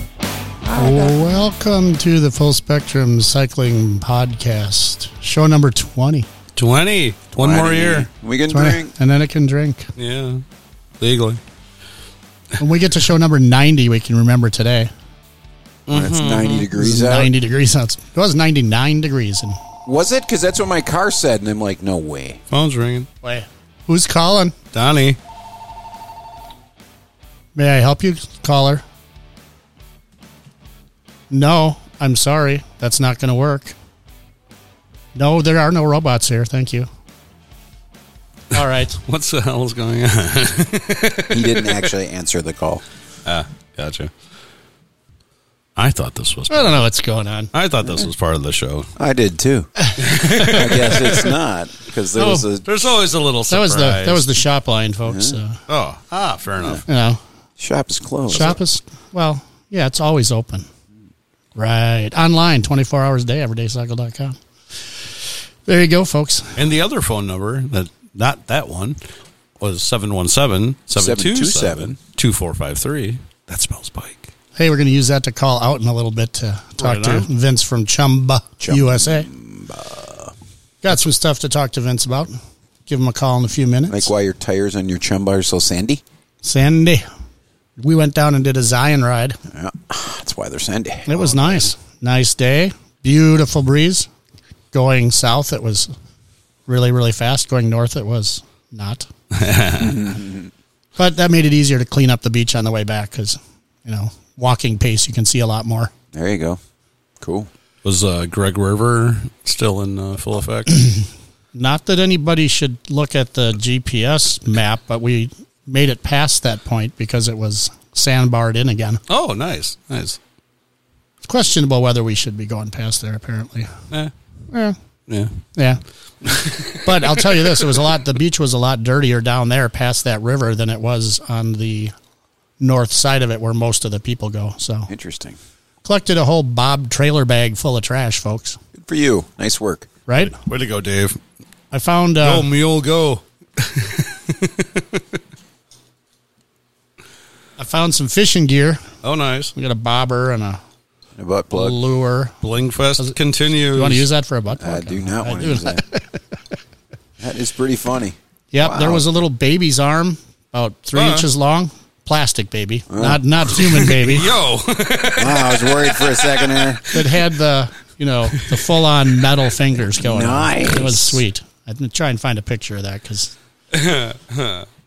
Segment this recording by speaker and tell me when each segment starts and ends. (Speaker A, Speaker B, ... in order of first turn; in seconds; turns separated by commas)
Speaker A: 0.7-6.3, Speaker B: 6.5-8.1, Speaker C: 7.3-8.9, Speaker A: 8.5-9.9, Speaker B: 10.0-10.4, Speaker B: 11.0-11.4, Speaker A: 12.6-14.9, Speaker B: 15.9-16.7, Speaker C: 15.9-17.3, Speaker A: 16.8-19.6, Speaker C: 19.8-22.4, Speaker B: 22.5-23.1, Speaker A: 23.2-24.5, Speaker B: 24.7-25.2, Speaker A: 27.5-28.8, Speaker A: 31.3-33.7, Speaker A: 35.1-36.9, Speaker A: 38.5-39.0, Speaker B: 38.9-41.8, Speaker C: 41.3-42.8, Speaker B: 43.2-44.1, Speaker B: 45.8-46.8, Speaker A: 46.5-47.5, Speaker B: 47.5-48.9, Speaker C: 49.0-49.7, Speaker B: 50.0-51.3, Speaker C: 50.4-52.9, Speaker A: 52.1-52.4, Speaker B: 52.6-54.3, Speaker A: 53.5-55.6, Speaker C: 55.1-55.4, Speaker B: 55.7-56.8, Speaker A: 56.9-57.2, Speaker C: 57.6-58.6, Speaker A: 58.3-60.7, Speaker A: 61.5-64.4, Speaker A: 65.6-66.6, Speaker B: 66.5-69.0, Speaker B: 69.6-74.3, Speaker C: 71.0-72.0, Speaker A: 74.5-79.3, Speaker B: 76.8-77.2, Speaker C: 78.6-80.3, Speaker A: 80.8-84.1, Speaker C: 83.9-86.0, Speaker A: 86.4-87.1, Speaker A: 87.8-89.4, Speaker C: 89.5-91.7, Speaker A: 91.1-94.1, Speaker A: 94.7-95.9, Speaker A: 96.7-99.1, Speaker B: 99.3-99.9, Speaker C: 99.8-100.5, Speaker A: 101.0-105.9, Speaker C: 106.1-106.6, Speaker C: 107.2-107.5, Speaker B: 107.8-110.8, Speaker A: 110.8-111.0, Speaker A: 111.5-119.0, Speaker B: 119.1-120.2, Speaker A: 121.2-123.7, Speaker A: 124.5-124.8, Speaker B: 125.1-125.4, Speaker B: 126.2-127.2, Speaker A: 126.8-131.9, Speaker A: 132.6-134.9, Speaker C: 134.9-135.4, Speaker A: 135.8-138.6, Speaker C: 138.7-139.9, Speaker A: 140.1-140.3, Speaker B: 140.3-141.2, Speaker A: 141.7-142.4, Speaker B: 142.2-145.2, Speaker A: 147.6-148.9, Speaker B: 149.0-149.5, Speaker A: 149.5-150.6, Speaker C: 151.2-151.8, Speaker A: 151.5-152.3, Speaker B: 152.4-154.1, Speaker A: 153.7-156.1, Speaker C: 154.6-155.8, Speaker C: 157.2-159.0, Speaker A: 158.5-164.3, Speaker B: 160.9-161.3, Speaker C: 162.9-163.2, Speaker B: 163.6-166.9, Speaker C: 165.2-166.8, Speaker A: 166.9-173.3, Speaker B: 168.3-168.6, Speaker C: 170.0-171.2, Speaker B: 173.7-174.7